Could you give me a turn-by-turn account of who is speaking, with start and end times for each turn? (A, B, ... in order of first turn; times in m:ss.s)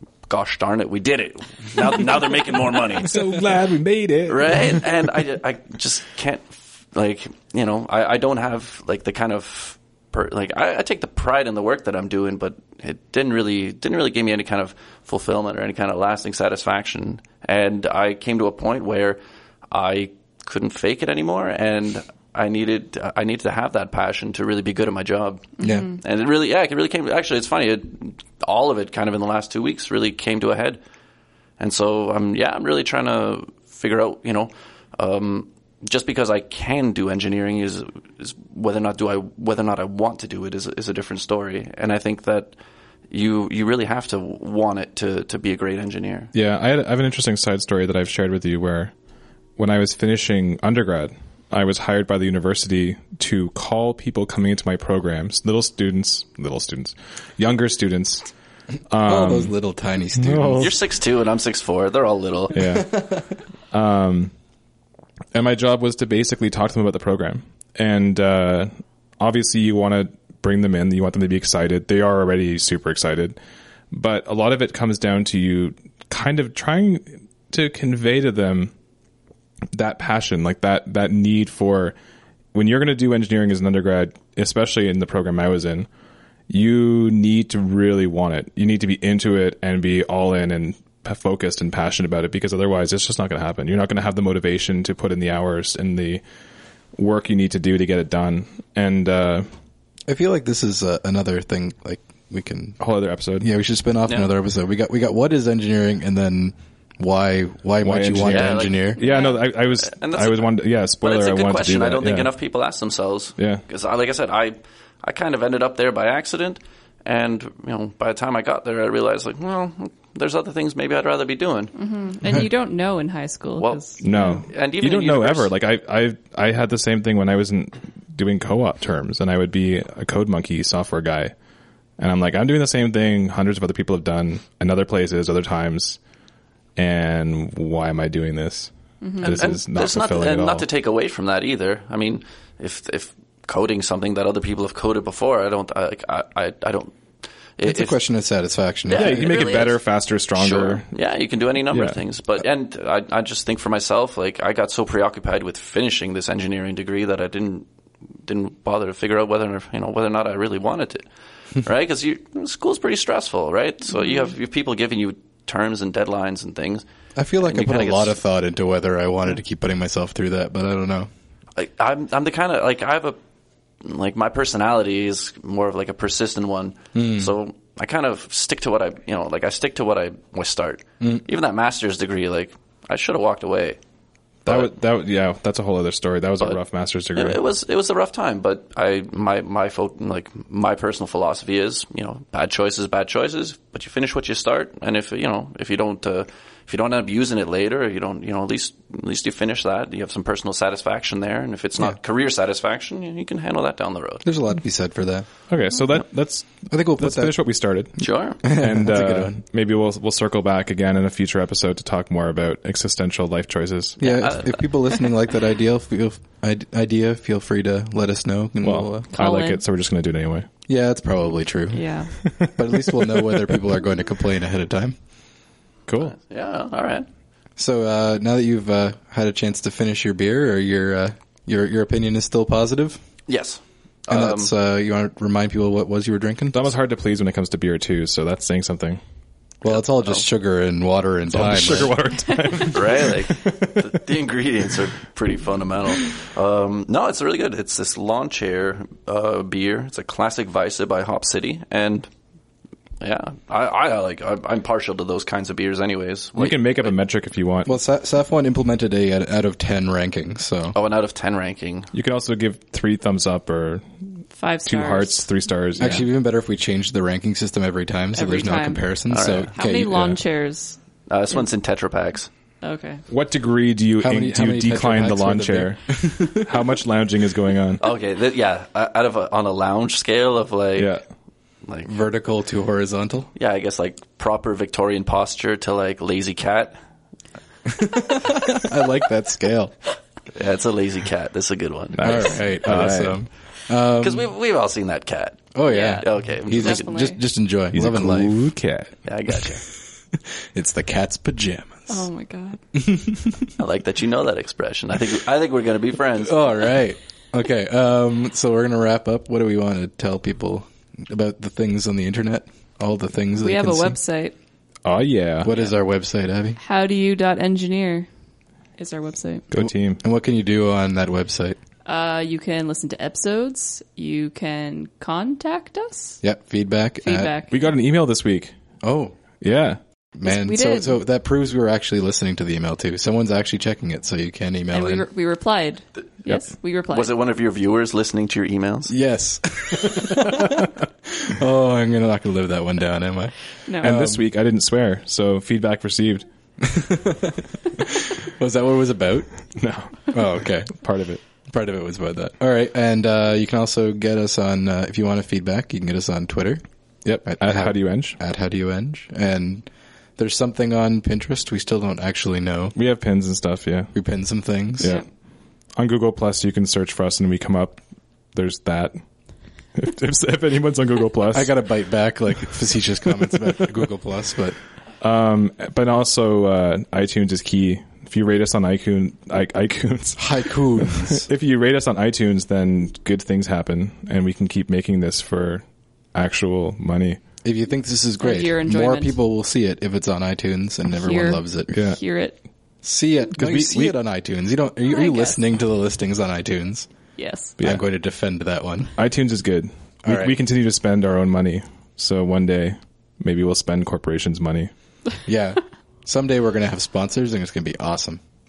0:00.3-0:03.3 A
0:03.0-0:04.8 B
0:04.3-0:19.2 A
0:19.7-0:30.8 A
0:25.6-0:25.9 C
0:31.6-0:42.5 A
0:43.1-0:46.3 A
0:46.3-0:48.9 B
0:49.6-0:58.3 B
0:58.9-0:59.5 B
0:59.0-1:00.7 C
1:00.1-1:00.8 B
1:00.6-1:02.6 A
1:02.5-1:03.0 B
1:02.5-1:03.2 C
1:03.7-1:04.3 B
1:05.3-1:13.4 B
1:13.9-1:18.7 B
1:19.7-1:22.0 B
1:22.5-1:25.9 B
1:26.5-1:36.2 B
1:37.0-1:39.5 B
1:40.1-1:42.8 C
1:42.8-1:43.5 B
1:43.4-1:49.0 C
1:47.8-1:52.3 B
1:48.1-2:01.7 A
1:49.0-1:49.4 D
1:53.4-1:53.6 B
2:01.7-2:04.4 D
2:03.6-2:05.5 A
2:04.0-2:11.3 B
2:12.0-2:16.0 B
2:16.8-2:20.7 B
2:19.0-2:19.4 D
2:19.2-2:27.0 A
2:27.6-2:28.0 A
2:27.6-2:29.3 C
2:28.9-2:29.8 A
2:28.9-2:30.9 B
2:30.4-2:37.7 A
2:31.7-2:32.0 B
2:38.2-2:41.0 A
2:41.6-2:46.8 A
2:43.9-2:44.3 D
2:47.1-2:51.1 C
2:47.4-2:48.2 A
2:51.6-2:53.2 A
2:53.8-3:03.8 A
2:56.9-2:57.3 C
3:01.0-3:01.2 C
3:04.4-3:04.7 A
3:04.4-3:07.4 B
3:07.1-3:24.2 A
3:24.2-3:25.2 C
3:25.5-3:34.2 B
3:26.7-3:27.4 C
3:28.0-3:28.4 A
3:28.4-3:29.4 C
3:34.0-3:39.1 C
3:34.0-3:34.6 A
3:38.6-3:40.5 B
3:39.1-3:39.6 D
3:40.7-3:45.0 C
3:41.7-3:42.1 D
3:42.2-3:43.6 B
3:45.9-3:46.1 B
3:46.0-3:47.1 A
3:47.6-3:53.0 C
3:53.3-3:54.5 A
3:54.1-3:56.7 C
3:56.5-3:59.0 B
3:59.6-4:01.9 C
3:59.7-4:00.2 A
4:01.3-4:03.9 B
4:02.6-4:12.1 A
4:13.0-4:16.9 A
4:16.4-4:17.8 B
4:17.6-4:20.8 C
4:20.7-4:21.9 A
4:21.9-4:23.8 B
4:24.3-4:26.0 D
4:24.6-4:26.0 B
4:25.8-4:30.1 C
4:28.1-4:28.8 D
4:29.1-4:29.5 A
4:29.5-4:30.8 D
4:31.1-4:32.3 A
4:32.6-4:33.0 D
4:33.1-4:37.8 B
4:34.0-4:36.6 C
4:37.8-4:40.9 A
4:40.8-4:41.0 B
4:41.6-4:41.9 A
4:41.8-4:43.3 C
4:43.3-4:46.8 A
4:47.6-4:49.7 C
4:50.3-4:52.4 A
4:52.0-4:53.2 B
4:52.0-4:54.3 C
4:54.0-4:57.0 A
4:55.5-4:58.4 C
4:55.7-4:57.2 D
4:57.7-4:59.0 B
4:59.0-4:59.6 A
5:00.1-5:02.1 C
5:01.9-5:02.6 D
5:02.7-5:03.5 C
5:03.6-5:06.5 A
5:06.2-5:14.0 C
5:13.4-5:14.3 D
5:14.8-5:15.5 B
5:15.4-5:16.6 C
5:16.6-5:18.1 D
5:18.8-5:19.5 D
5:19.5-5:20.0 B
5:19.6-5:21.6 C
5:21.8-5:26.2 D
5:26.2-5:27.3 C
5:27.0-5:27.6 D
5:27.5-5:28.5 B
5:28.8-5:29.1 C
5:29.4-5:29.8 B
5:30.2-5:35.0 C
5:30.2-5:31.0 D
5:34.7-5:37.1 D
5:36.9-5:38.9 A
5:38.9-5:44.2 C
5:43.6-5:43.9 D
5:43.8-5:46.2 B
5:46.6-5:49.3 C
5:49.5-5:51.2 B
5:50.1-5:50.7 C
5:51.2-6:02.7 C
5:57.4-5:58.2 B
6:02.7-6:03.9 B
6:03.9-6:04.9 C
6:04.8-6:05.0 B
6:04.8-6:05.0 D
6:05.8-6:07.8 B
6:08.3-6:09.0 B
6:09.7-6:11.6 B
6:11.3-6:14.6 C
6:15.0-6:27.2 B
6:20.2-6:21.3 C
6:27.4-6:31.8 C
6:28.2-6:29.2 D
6:30.9-6:32.4 D
6:31.7-6:32.0 B
6:32.8-6:36.9 C
6:33.4-6:33.7 B
6:34.8-6:35.4 D
6:37.2-6:37.5 D
6:37.6-6:37.8 B
6:37.6-6:39.0 C
6:39.0-6:44.7 B
6:40.0-6:40.4 C
6:45.2-6:48.2 C